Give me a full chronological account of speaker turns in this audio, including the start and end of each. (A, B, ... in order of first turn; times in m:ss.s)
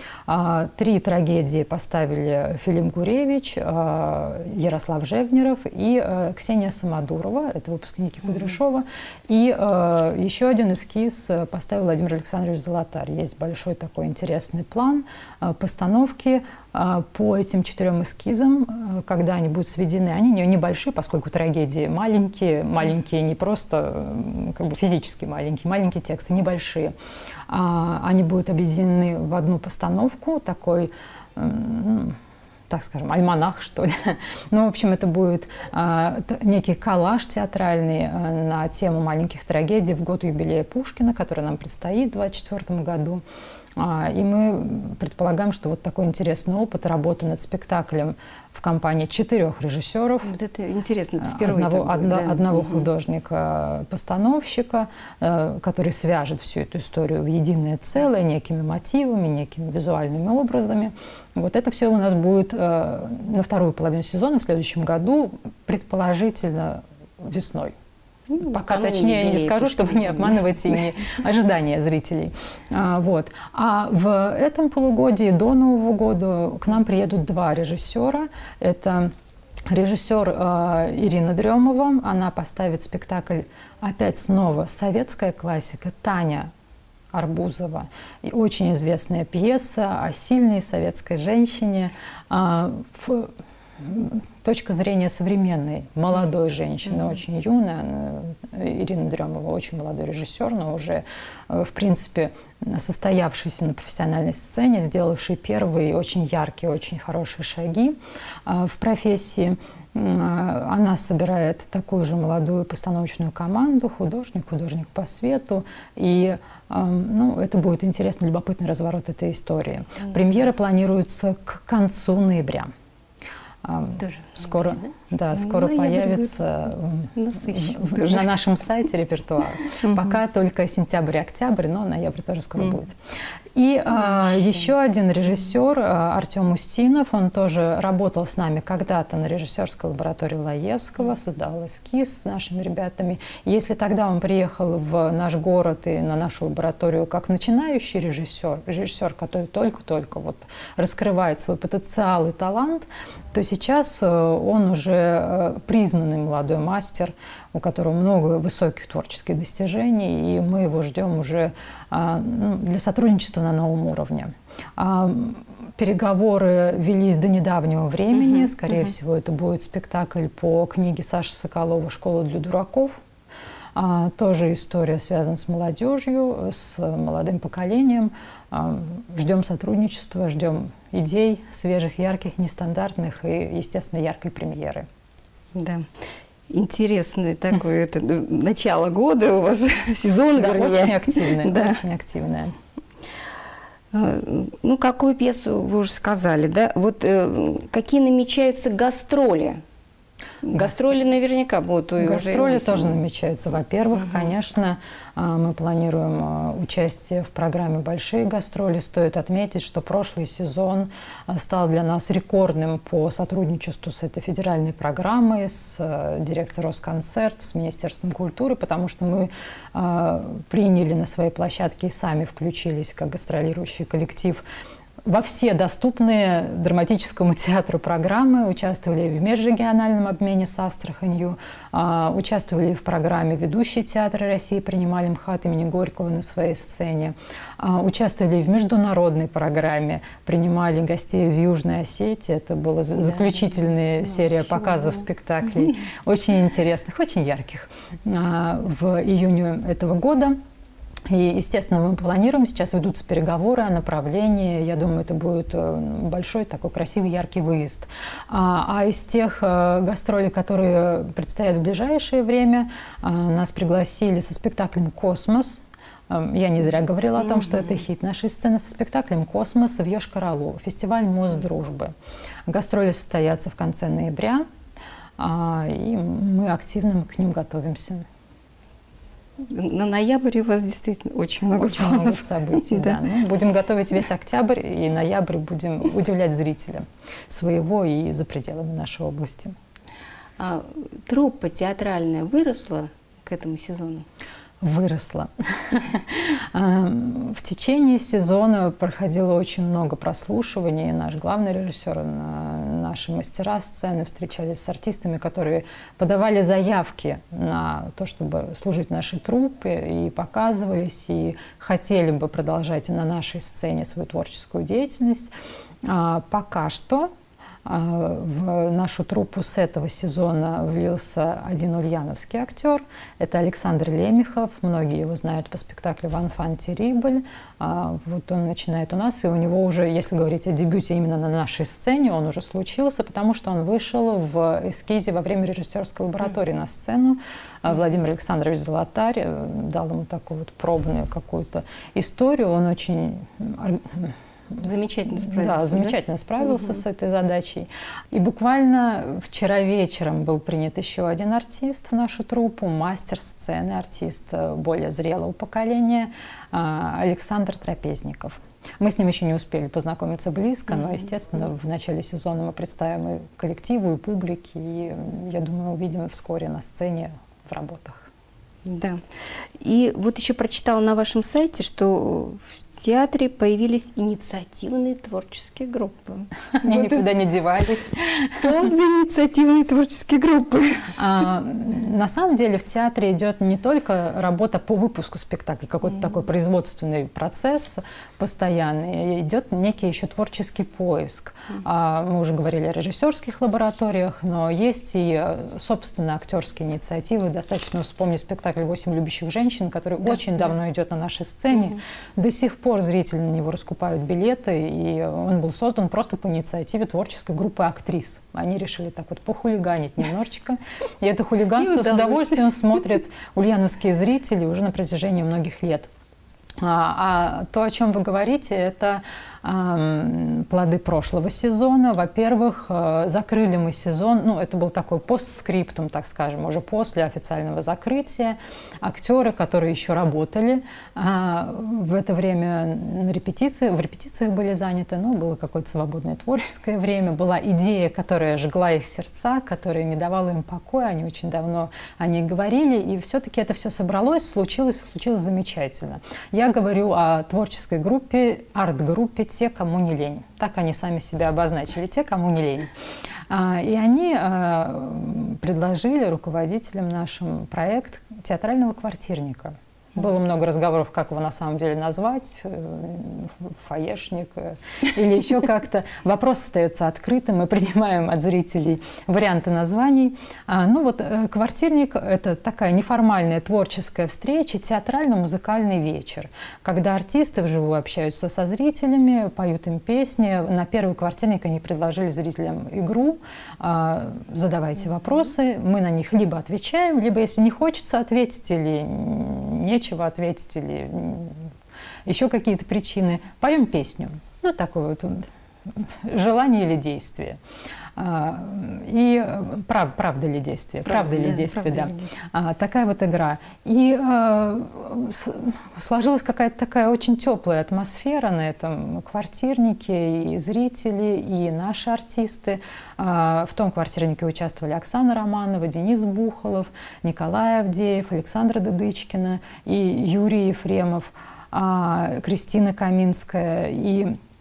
0:00.3-0:26.9 A
0:27.5-0:32.2 A
0:32.7-0:43.2 A
0:43.8-0:50.4 A
0:50.2-0:52.9 B
0:51.2-1:07.7 A
1:08.3-1:10.6 B
1:08.4-1:19.1 A
1:19.7-1:26.5 A
1:27.1-2:02.7 A
2:03.6-2:13.0 A
2:04.0-2:04.8 B
2:05.3-2:06.3 B
2:07.2-2:08.3 B
2:09.8-2:10.1 B
2:13.6-2:53.0 A
2:48.2-2:48.5 B
2:53.8-3:04.9 A
3:05.5-3:05.9 B
3:06.5-3:11.8 B
3:10.4-3:12.6 A
3:13.9-3:19.6 B
3:20.4-3:23.0 B
3:20.5-3:20.8 A
3:22.0-3:44.4 A
3:45.0-4:10.4 A
4:03.0-4:05.0 B
4:11.1-4:31.9 A
4:27.4-4:27.7 B
4:32.5-4:34.4 A
4:35.2-4:38.1 A
4:39.4-4:43.0 B
4:41.6-4:49.6 A
4:50.4-4:54.1 B
4:54.6-5:15.3 A
5:15.8-5:17.1 A
5:17.6-5:44.2 A
5:44.6-5:46.0 B
5:45.2-6:08.1 A
6:08.6-6:09.0 B
6:09.6-6:17.1 B
6:16.5-6:18.5 A
6:18.2-6:20.9 B
6:21.0-6:55.9 A
6:51.6-6:52.5 B
6:56.6-7:32.7 A
7:33.3-8:11.5 A
8:12.1-8:17.4 A
8:18.0-8:44.2 A
8:20.8-8:22.1 B